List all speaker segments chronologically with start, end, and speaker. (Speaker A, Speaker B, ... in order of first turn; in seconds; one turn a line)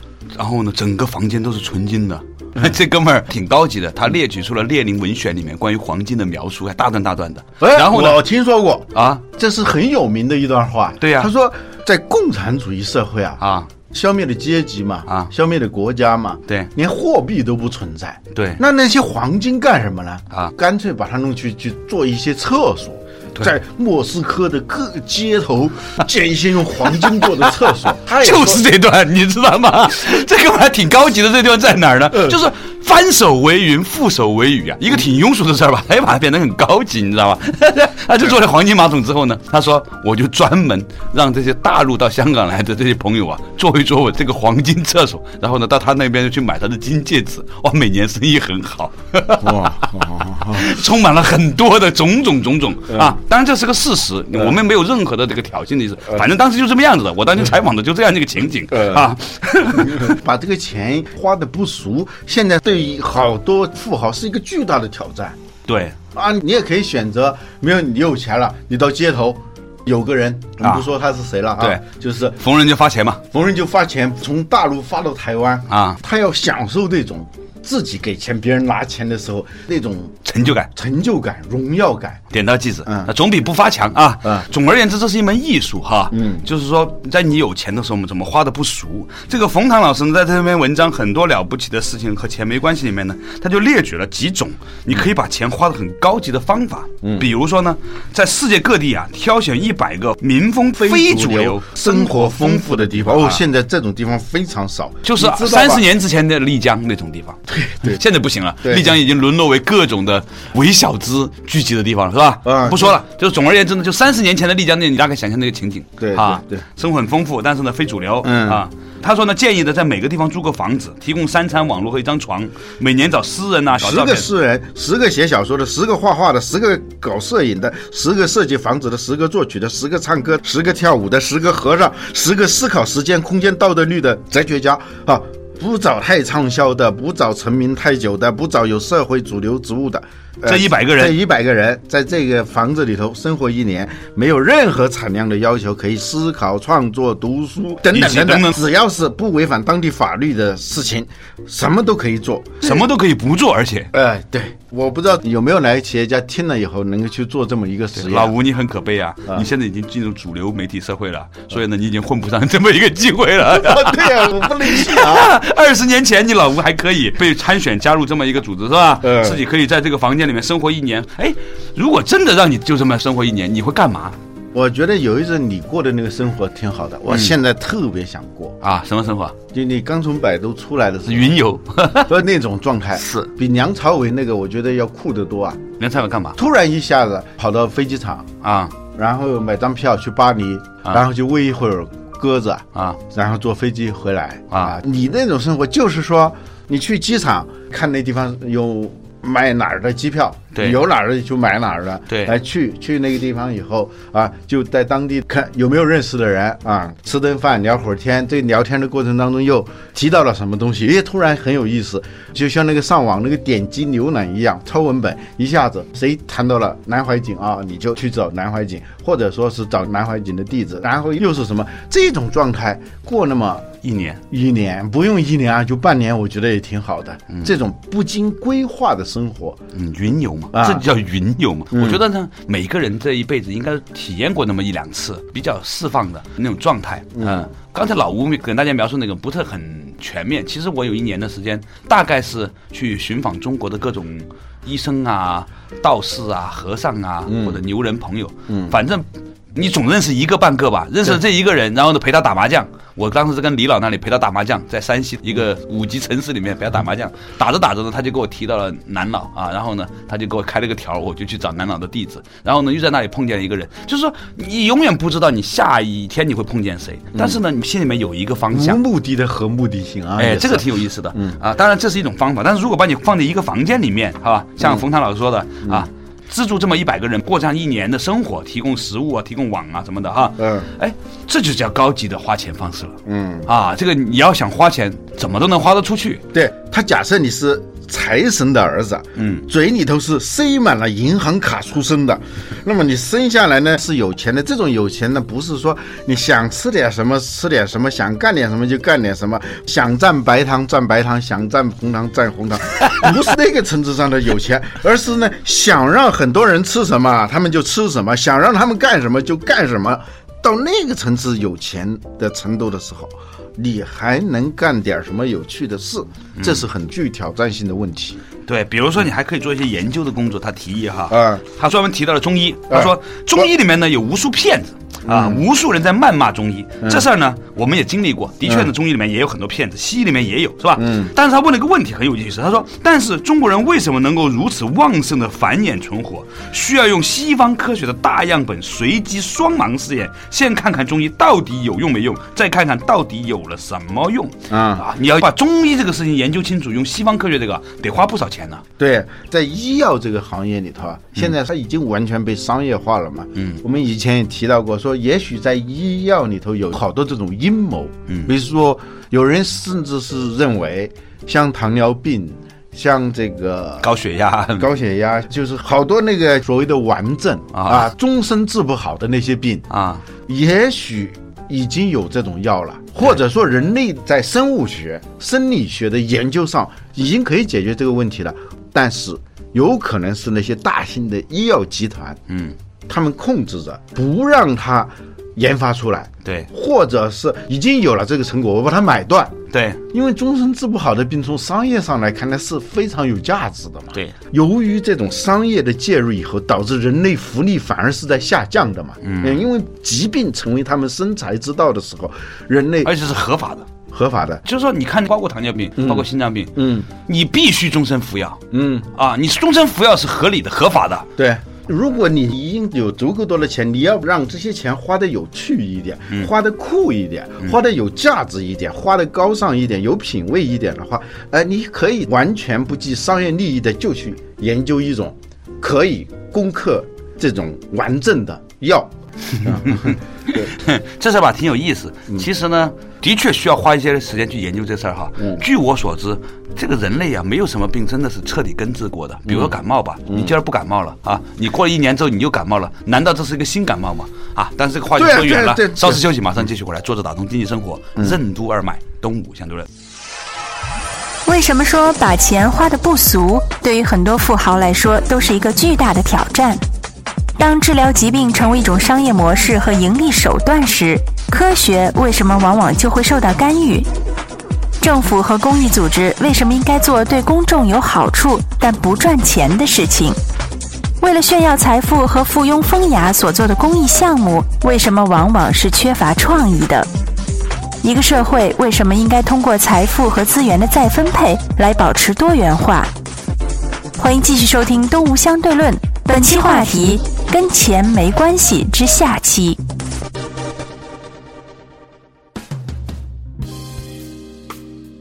Speaker A: 0.3-8.2
Speaker B: 7.6-28.6
Speaker A: 8.9-9.2
Speaker A: 11.0-11.3
Speaker A: 13.4-13.7
Speaker A: 18.3-18.6
Speaker A: 26.9-27.3
Speaker A: 28.1-49.9
Speaker B: 49.4-50.8
Speaker A: 50.5-60.2
Speaker B: 52.9-53.2
Speaker B: 58.7-59.0
Speaker B: 59.8-65.4
Speaker A: 65.7-66.0
Speaker B: 66.1-72.4
Speaker A: 72.4-73.2
Speaker B: 73.3-82.2
Speaker A: 75.7-76.0
Speaker A: 80.2-80.7
Speaker A: 82.3-103.4
Speaker B: 82.8-83.1
Speaker B: 86.1-86.5
Speaker B: 97.0-97.3
Speaker B: 100.7-105.8
Speaker A: 105.0-124.3
Speaker B: 107.5-108.0
Speaker B: 108.6-109.0
Speaker B: 112.4-113.0
Speaker B: 116.0-116.6
Speaker B: 118.2-118.6
Speaker B: 123.8-152.8
Speaker A: 140.4-141.2
Speaker A: 147.9-148.6
Speaker A: 152.6-153.9
Speaker B: 153.9-158.3
Speaker A: 157.9-174.2
Speaker B: 163.4-165.4
Speaker B: 169.0-169.4
Speaker B: 174.5-178.6
Speaker A: 178.6-179.4
Speaker B: 179.5-181.4
Speaker A: 181.1-182.1
Speaker B: 181.9-185.6
Speaker A: 183.0-183.3
Speaker A: 185.8-186.4
Speaker B: 186.3-223.7
Speaker A: 188.4-188.7
Speaker A: 194.5-194.8
Speaker A: 200.5-200.8
Speaker A: 202.1-202.3
Speaker A: 223.8-224.2
Speaker B: 224.3-229.6
Speaker A: 229.7-268.8
Speaker B: 230.5-230.8
Speaker B: 231.7-232.0
Speaker B: 237.2-237.5
Speaker B: 247.2-247.6
Speaker B: 248.5-248.7
Speaker B: 268.5-271.4
Speaker A: 270.2-286.2
Speaker B: 280.4-280.7
Speaker B: 283.1-283.5
Speaker B: 286.3-318.2
Speaker A: 289.2-289.4
Speaker A: 316.4-316.6
Speaker A: 318.5-348.6
Speaker B: 321.1-321.4
Speaker B: 325.0-325.4
Speaker B: 328.4-328.7
Speaker B: 330.8-331.1
Speaker B: 344.5-344.8
Speaker B: 348.8-363.9
Speaker A: 353.4-353.6
Speaker A: 358.1-358.3
Speaker A: 363.8-364.7
Speaker B: 364.6-369.7
Speaker A: 367.5-367.9
Speaker A: 369.7-370.0
Speaker B: 370.2-382.2
Speaker A: 382.3-382.6
Speaker B: 382.9-389.4
Speaker A: 389.5-389.8
Speaker B: 389.9-402.9
Speaker A: 399.0-399.4
Speaker A: 402.8-403.7
Speaker B: 403.9-404.4
Speaker A: 404.4-411.1
Speaker B: 405.8-406.9
Speaker B: 408.5-408.9
Speaker B: 411.2-430.5
Speaker A: 429.4-449.7
Speaker B: 439.3-439.5
Speaker B: 440.1-440.3
Speaker B: 444.9-446.0
Speaker C: 451.2-456.6
Speaker C: 457.4-463.9
Speaker C: 464.8-470.2
Speaker C: 471.0-476.9
Speaker C: 477.8-482.9
Speaker C: 484.0-489.6